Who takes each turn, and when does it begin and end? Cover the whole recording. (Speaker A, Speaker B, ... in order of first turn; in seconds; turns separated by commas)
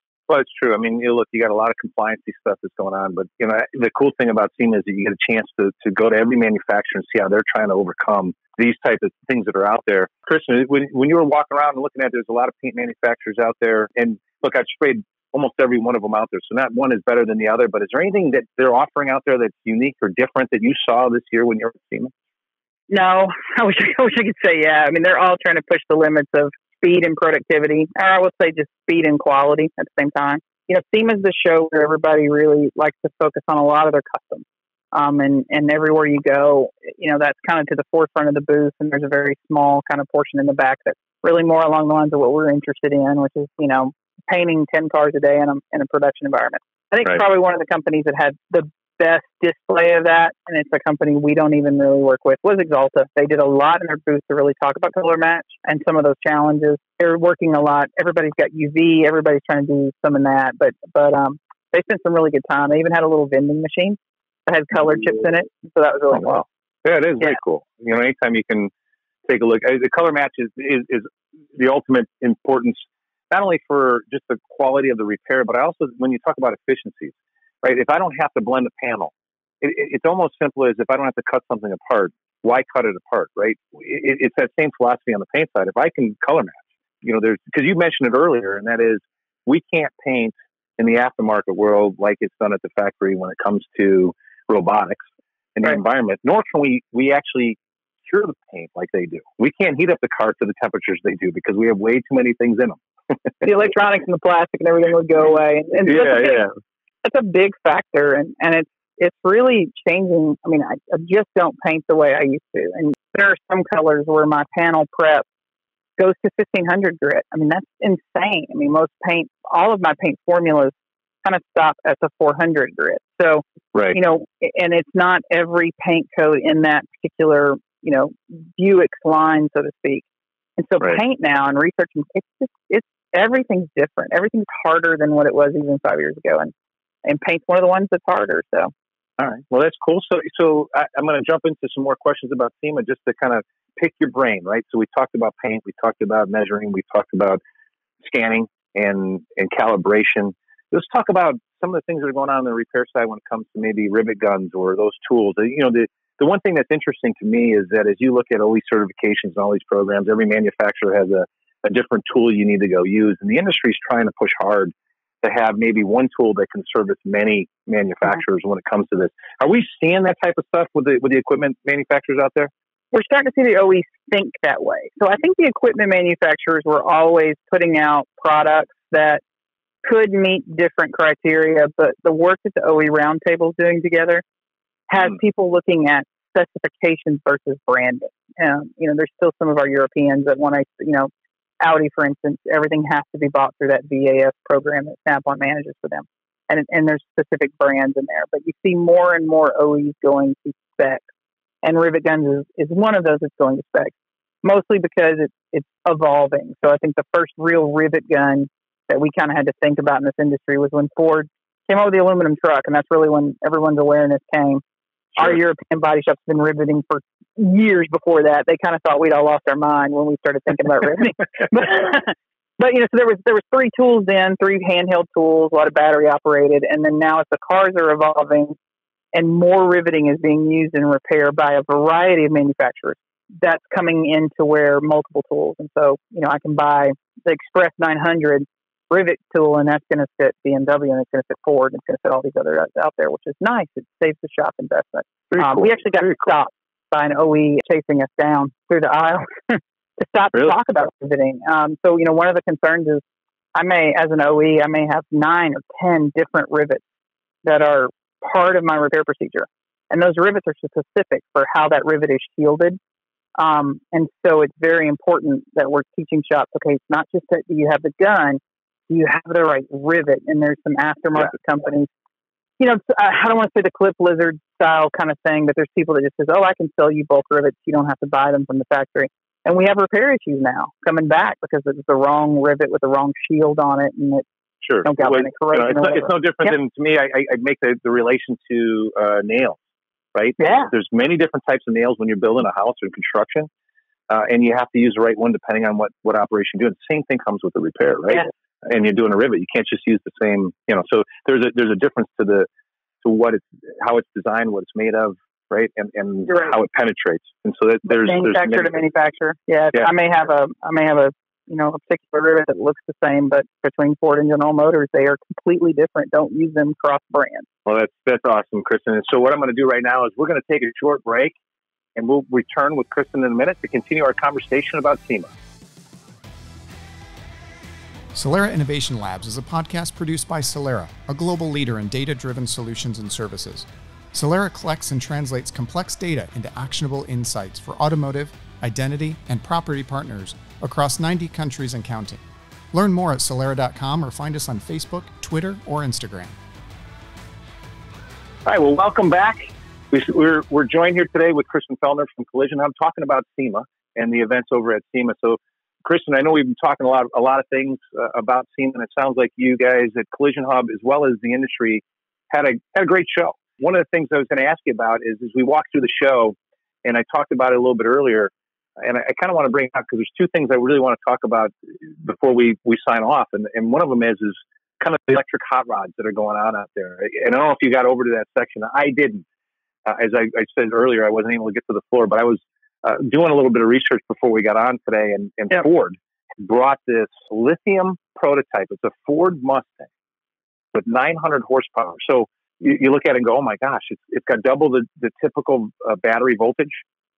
Speaker A: 0.3-22.1, Speaker B: 22.9-66.4, Speaker A: 66.1-68.7, Speaker A: 69.3-103.2, Speaker B: 103.4-106.5, Speaker A: 105.8-106.5, Speaker B: 107.0-115.2, Speaker B: 116.0-130.1, Speaker B: 130.6-136.5, Speaker B: 137.1-138.7, Speaker A: 139.2-147.4, Speaker A: 148.0-172.5, Speaker B: 172.9-179.2, Speaker B: 179.8-184.2, Speaker B: 184.9-191.1, Speaker B: 191.6-201.0, Speaker B: 201.6-214.6, Speaker B: 215.2-228.6, Speaker B: 229.1-253.0, Speaker A: 245.3-246.2, Speaker B: 253.6-256.8, Speaker B: 257.4-262.8, Speaker B: 263.4-271.9, Speaker B: 272.6-284.2, Speaker A: 284.6-289.6, Speaker B: 284.8-286.5, Speaker A: 290.1-293.5, Speaker B: 290.4-290.7, Speaker A: 294.1-302.5, Speaker A: 303.0-308.8, Speaker B: 307.9-317.5, Speaker A: 317.7-321.4, Speaker A: 321.9-325.3, Speaker C: 328.1-342.2, Speaker C: 342.7-346.3, Speaker A: 348.5-349.4, Speaker A: 349.9-379.2, Speaker A: 379.9-389.9, Speaker A: 390.7-396.8